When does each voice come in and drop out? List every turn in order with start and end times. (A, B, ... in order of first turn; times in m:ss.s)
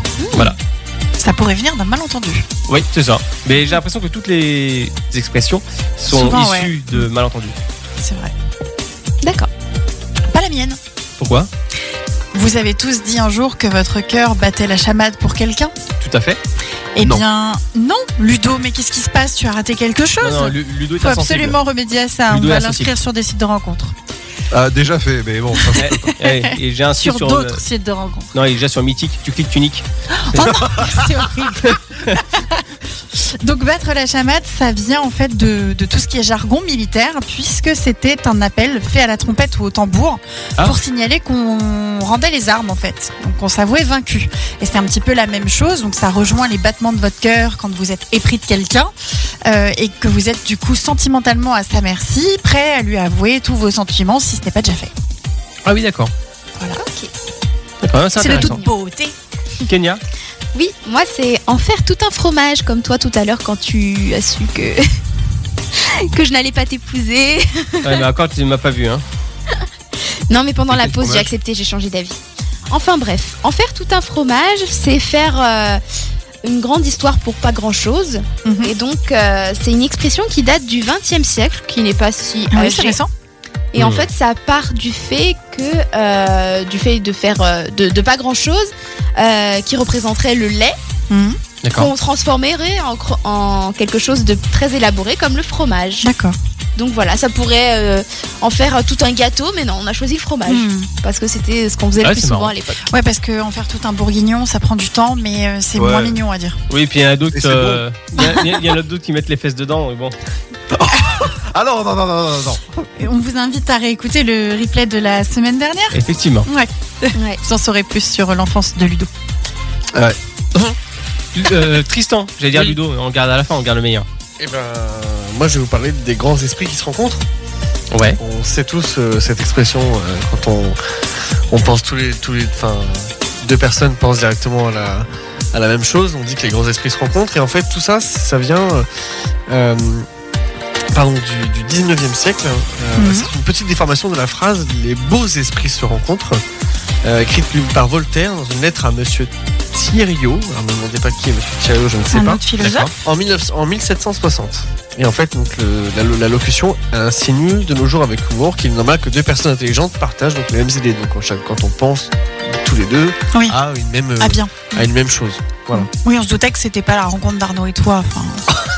0:00.2-0:00.5 A
0:01.2-0:02.5 B
0:02.7-0:07.6 C
0:06.1-0:07.0 B
0:08.0-0:08.3 B
0:09.2-0:09.5 A
0:10.3-0:10.8 B
0:11.2-0:11.5 C
0:12.3-0:15.8 B
0:16.0-0:16.4 C
0:17.0-0:23.9 B
0:17.0-0:17.2 D
0:20.2-0:21.6 C
0:22.3-0:22.9 C
0:24.5-0:26.1 D
0:25.6-0:28.3 B
0:25.8-0:27.6 C
0:28.3-0:30.5 C
0:30.1-0:48.9 B
0:30.4-0:30.9 D
0:31.6-0:32.2 C
0:49.4-0:54.9 B
0:55.7-0:56.1 C
0:56.8-0:57.1 A
0:57.8-0:58.6 C
0:58.2-0:59.1 B
0:58.3-0:58.6 A
0:59.7-1:00.0 C
1:00.5-1:05.0 A
1:05.8-1:08.0 A
1:07.8-1:09.0 C
1:10.3-1:15.8 A
1:10.7-1:11.3 D
1:16.4-1:23.0 A
1:18.4-1:18.7 B
1:22.5-1:23.1 B
1:23.7-1:30.8 A
1:23.8-1:24.1 C
1:31.1-1:31.4 B
1:31.6-1:31.9 C
1:31.8-1:36.1 A
1:36.0-1:36.4 B
1:36.8-1:42.9 A
1:40.5-1:40.9 B
1:42.0-1:42.5 C
1:42.9-1:46.6 B
1:45.8-1:46.2 D
1:46.7-1:50.2 C
1:47.3-1:47.8 D
1:50.7-1:52.6 D
1:53.0-1:59.1 B
1:55.9-1:56.5 C
1:57.2-1:57.4 A
2:01.4-2:04.1 C
2:04.4-2:07.2 E
2:07.9-2:08.2 C
2:08.2-2:10.8 E
2:11.5-2:18.9 E
2:19.5-2:20.1 E
2:20.9-2:26.4 E
2:23.0-2:23.3 B
2:27.0-2:32.4 E
2:32.1-2:32.9 B
2:32.6-2:32.9 C
2:33.0-2:45.9 E
2:43.3-2:43.6 B
2:44.2-2:44.9 B
2:45.7-2:48.5 B